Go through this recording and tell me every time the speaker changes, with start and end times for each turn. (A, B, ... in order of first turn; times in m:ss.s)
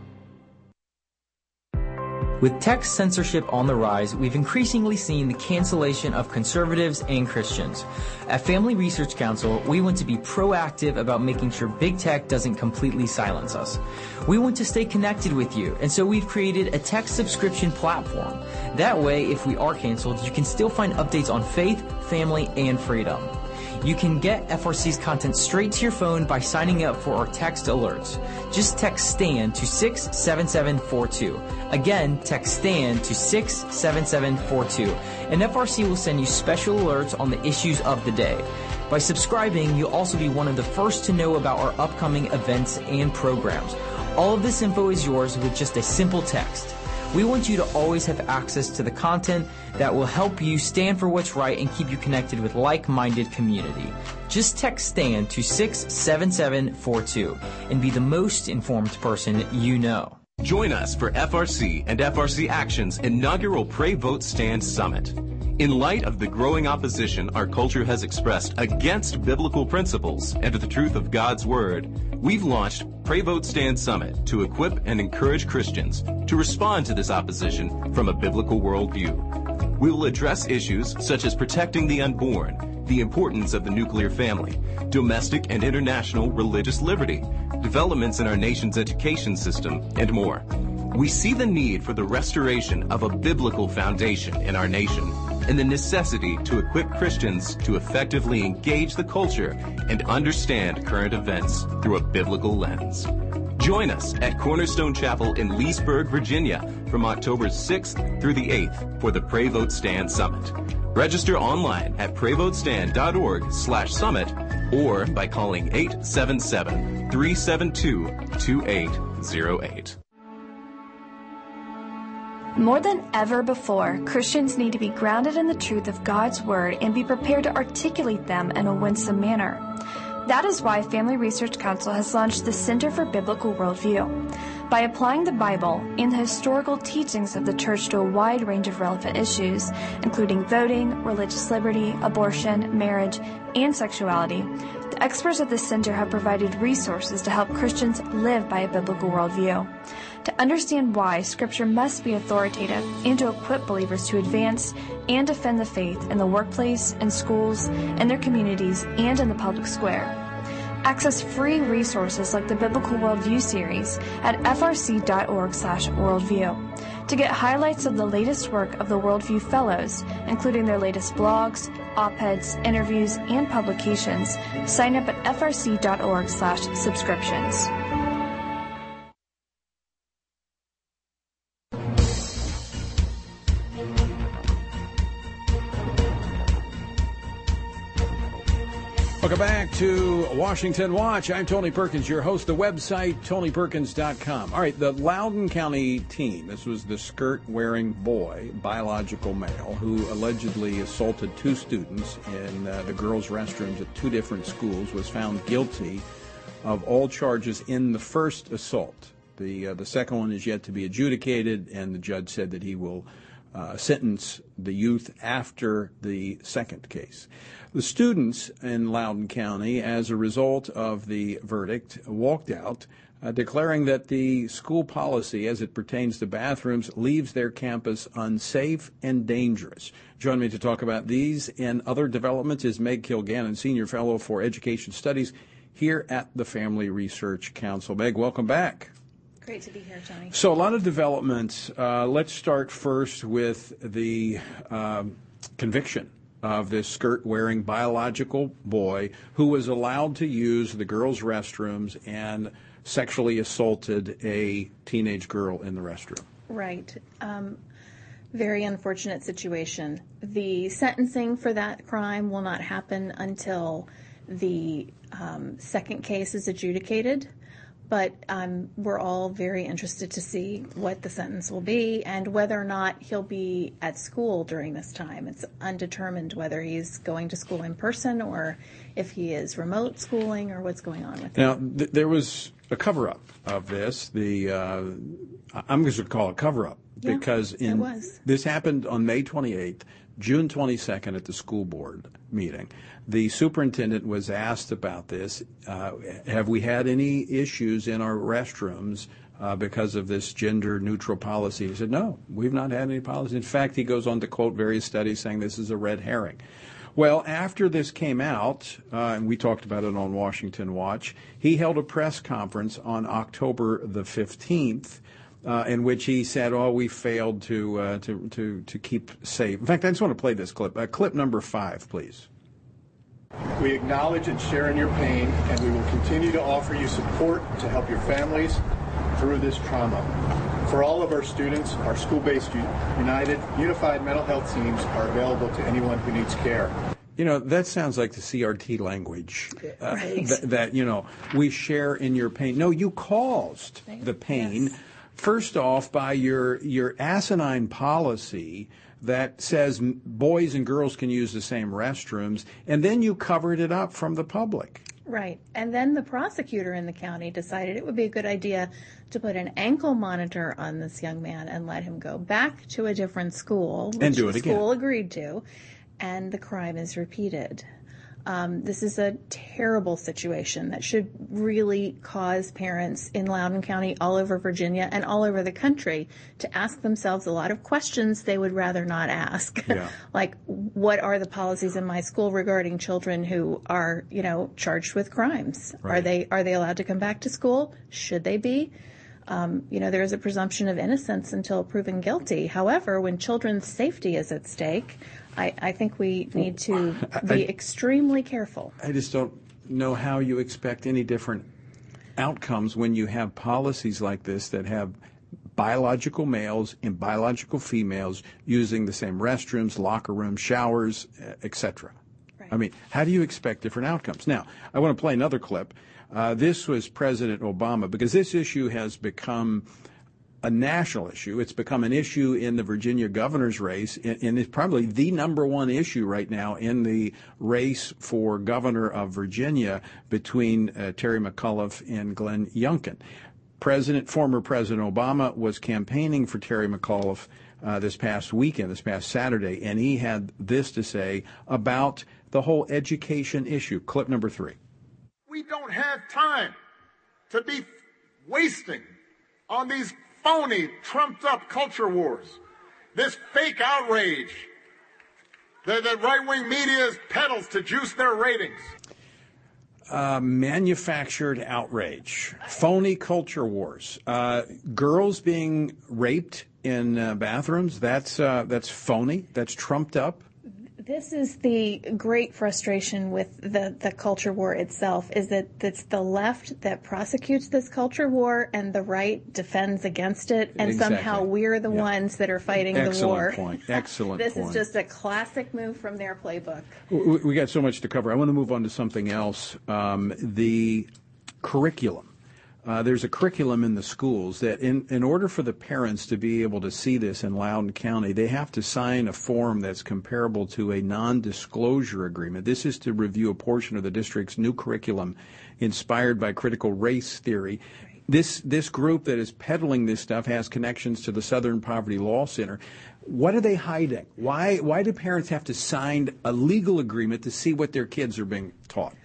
0:02.4-1:00.2 A
1:00.4-2:00.0 B
2:02.6-2:09.7 C
2:10.2-2:40.2 C
2:40.8-2:57.7 C
3:09.2-3:26.0 D
3:26.6-3:58.9 D
3:59.4-4:00.4 E
4:00.3-4:16.3 D
4:16.5-4:17.6 E
4:18.3-4:27.3 E
4:27.9-4:41.4 E
4:41.4-5:06.4 D
4:47.0-4:48.2 E
5:07.0-5:22.3 D
5:23.6-5:28.6 F
5:29.1-5:36.8 F
5:37.2-5:54.9 D
5:39.9-5:40.3 E
5:43.9-5:44.6 E
5:55.1-6:05.4 E
6:04.0-6:04.7 D
6:06.0-6:07.7 E
6:08.3-6:28.7 E
6:19.7-6:19.9 D
6:29.3-6:38.8 E
6:37.2-6:37.5 D
6:38.8-6:41.5 D
6:42.2-6:45.0 D
6:45.6-6:52.0 D
6:52.5-6:59.7 D
7:00.4-7:13.0 D
7:13.6-7:24.6 D
7:25.3-7:26.6 G
7:27.3-7:27.7 G
7:28.2-7:28.9 G
7:29.5-7:32.4 G
7:33.0-7:34.5 G
7:35.6-7:38.7 G
7:39.9-7:50.2 D
7:50.8-8:06.8 E
8:00.6-8:01.9 D
8:02.5-8:04.6 D
8:06.9-8:10.9 D
8:11.4-8:12.1 D
8:12.6-8:39.0 D